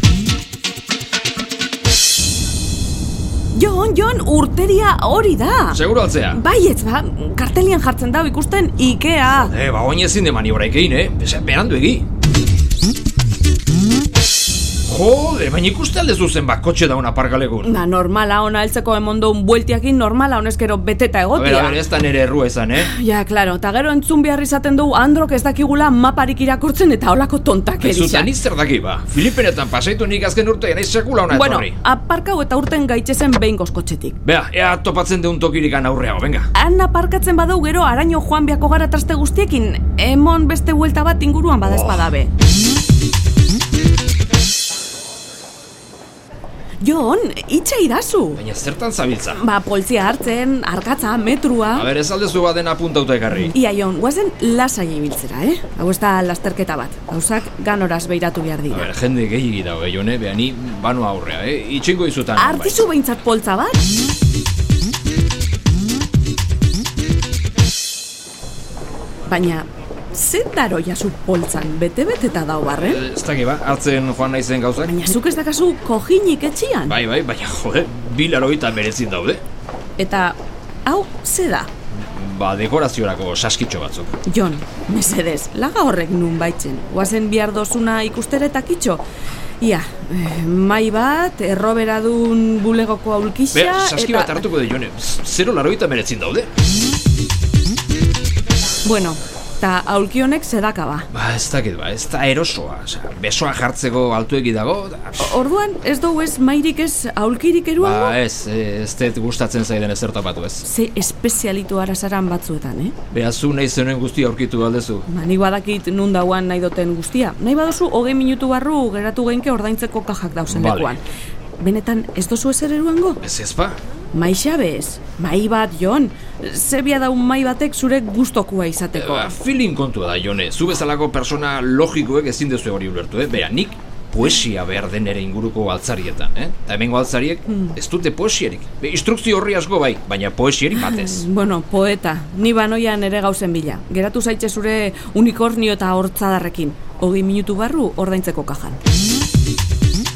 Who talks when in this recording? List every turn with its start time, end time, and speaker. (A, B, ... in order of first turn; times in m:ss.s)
0:03.5-0:05.8 A
0:05.7-0:06.4 B
0:06.3-0:09.5 A
0:09.4-0:12.0 B
0:14.8-0:17.7 B
0:17.6-0:21.8 A
0:21.3-0:22.9 B
0:22.8-0:28.3 A
0:27.8-0:31.8 B
0:31.3-0:34.2 A
0:34.2-0:36.5 B
0:36.5-0:42.3 A
0:41.6-0:42.1 B
0:46.8-0:48.4 A
0:48.4-0:49.4 B
0:49.3-0:51.9 A
0:51.7-0:53.5 B
0:53.3-0:58.9 A
0:58.7-1:02.8 B
1:02.4-1:03.8 A
1:09.3-1:13.0 A
1:12.7-1:15.0 B
1:14.8-1:17.0 A
1:16.9-1:19.4 B
1:20.0-1:21.7 A
1:22.1-1:24.1 B
1:24.2-1:29.0 A
1:29.6-1:34.4 A
1:33.5-1:36.5 B
1:38.8-1:41.1 A
1:41.1-1:45.4 B
1:45.2-1:48.2 A
1:47.8-1:50.6 B
1:50.6-1:52.9 A
1:53.1-1:55.0 B
1:55.1-2:01.0 A
2:00.5-2:01.0 B
2:01.6-2:03.2 A
2:03.2-2:03.8 B
2:04.1-2:09.4 A
2:08.9-2:21.2 B
2:17.5-2:17.8 A
2:20.8-2:28.8 A